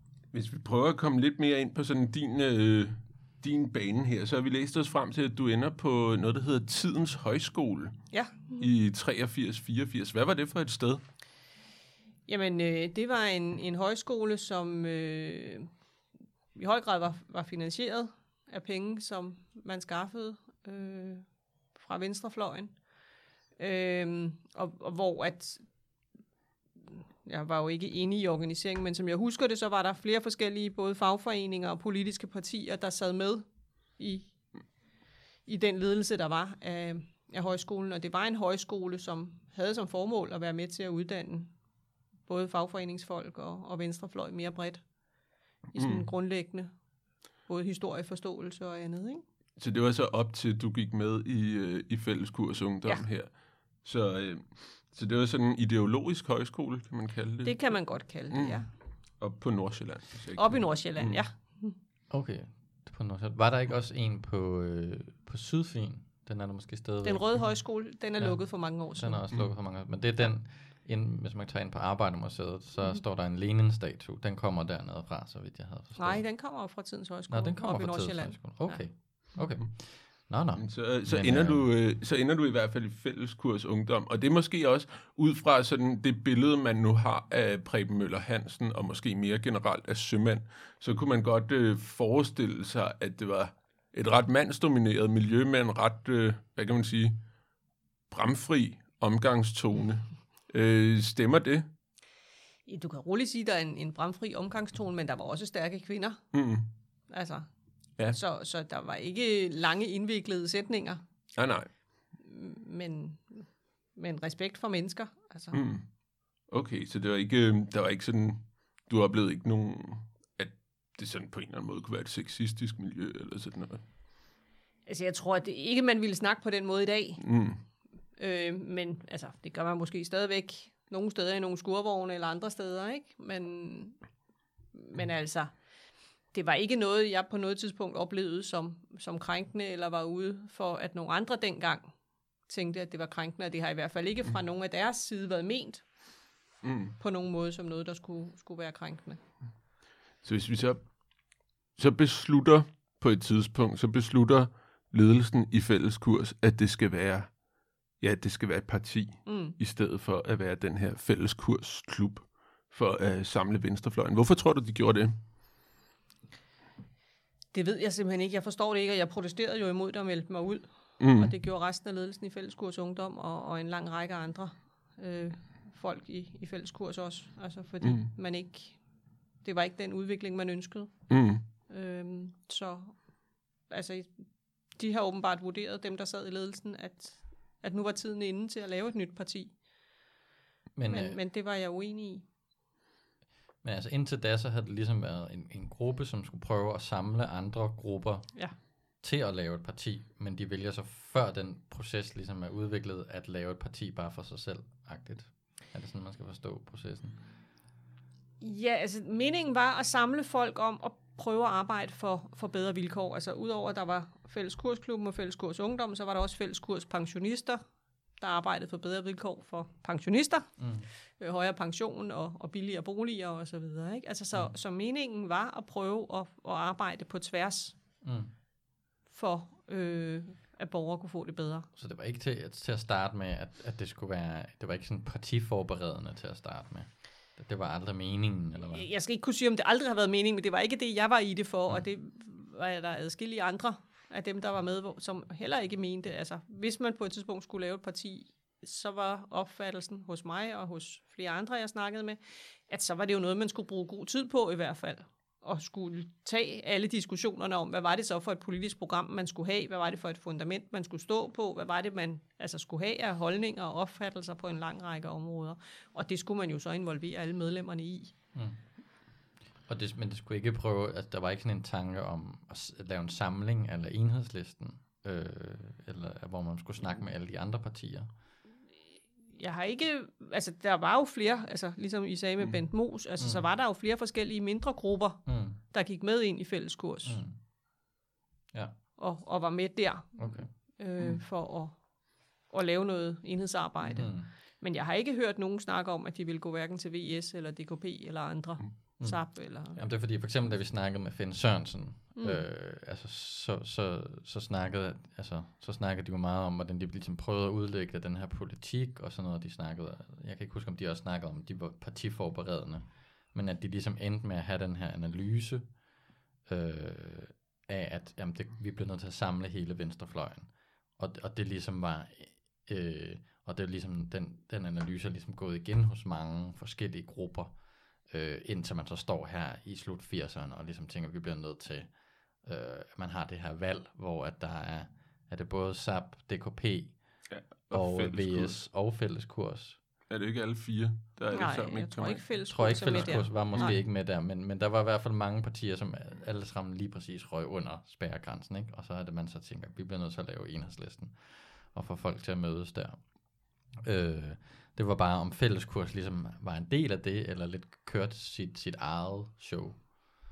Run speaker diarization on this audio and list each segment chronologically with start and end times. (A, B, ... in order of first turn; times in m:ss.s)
0:00.3-0:11.0 A
0:08.1-0:08.7 B
0:12.3-0:15.7 B
0:16.5-0:21.2 B
0:21.8-0:22.7 B
0:23.6-0:25.6 B
0:26.9-0:33.4 B
0:34.0-0:34.4 B
0:35.4-0:41.5 B
0:42.2-0:44.8 B
0:45.7-0:46.1 A
0:45.7-0:46.7 B
0:47.4-0:49.2 B
0:49.6-1:01.2 A
0:57.4-0:58.7 B
1:00.4-1:01.8 B
1:02.1-1:07.6 C
1:07.0-1:09.2 B
1:08.2-1:16.2 C
1:16.0-1:18.8 B
1:17.3-1:21.7 C
1:20.6-1:37.2 A
1:38.1-1:41.7 A
1:42.7-1:46.3 B
1:46.3-1:46.7 A
1:47.1-1:47.5 B
1:48.1-1:51.0 B
1:51.3-1:51.7 A
1:52.1-1:55.6 B
1:55.5-1:55.9 A
1:56.4-2:03.8 A
2:04.8-2:07.2 B
2:07.2-2:07.6 A
2:08.2-2:14.0 B
2:14.7-2:15.5 B
2:16.3-2:21.9 B
2:22.5-2:25.8 B
2:26.6-2:27.0 A
2:27.0-2:29.2 B
2:30.2-2:37.4 A
2:38.0-2:45.1 A
2:39.2-2:39.6 B
2:47.5-2:58.8 B
2:51.0-2:51.3 A
2:57.8-2:58.1 A
2:59.4-3:03.0 B
3:01.1-3:01.4 A
3:03.7-3:09.6 B
3:10.8-3:11.2 C
3:10.9-3:12.2 B
3:13.6-3:27.2 C
3:28.4-3:37.6 B
3:38.2-3:40.5 B
3:40.6-3:40.9 C
3:41.2-3:47.8 B
3:48.0-3:48.3 C
3:49.1-3:51.7 B
3:51.8-3:58.9 C
3:58.7-4:28.1 B
4:28.3-4:28.6 C
4:29.6-4:38.1 C
4:39.3-4:47.2 B
4:43.2-4:43.5 C
4:45.2-4:45.6 C
4:47.0-4:47.4 C
4:48.5-4:48.8 C
4:49.0-4:51.8 B
4:50.2-4:50.5 C
4:52.4-4:59.8 B
4:53.9-4:54.3 C
4:59.0-5:15.8 C
5:02.1-5:02.4 B
5:16.4-5:39.8 C
5:37.3-5:38.6 A
5:40.1-5:43.8 A
5:41.3-5:43.8 B
5:42.5-5:59.9 C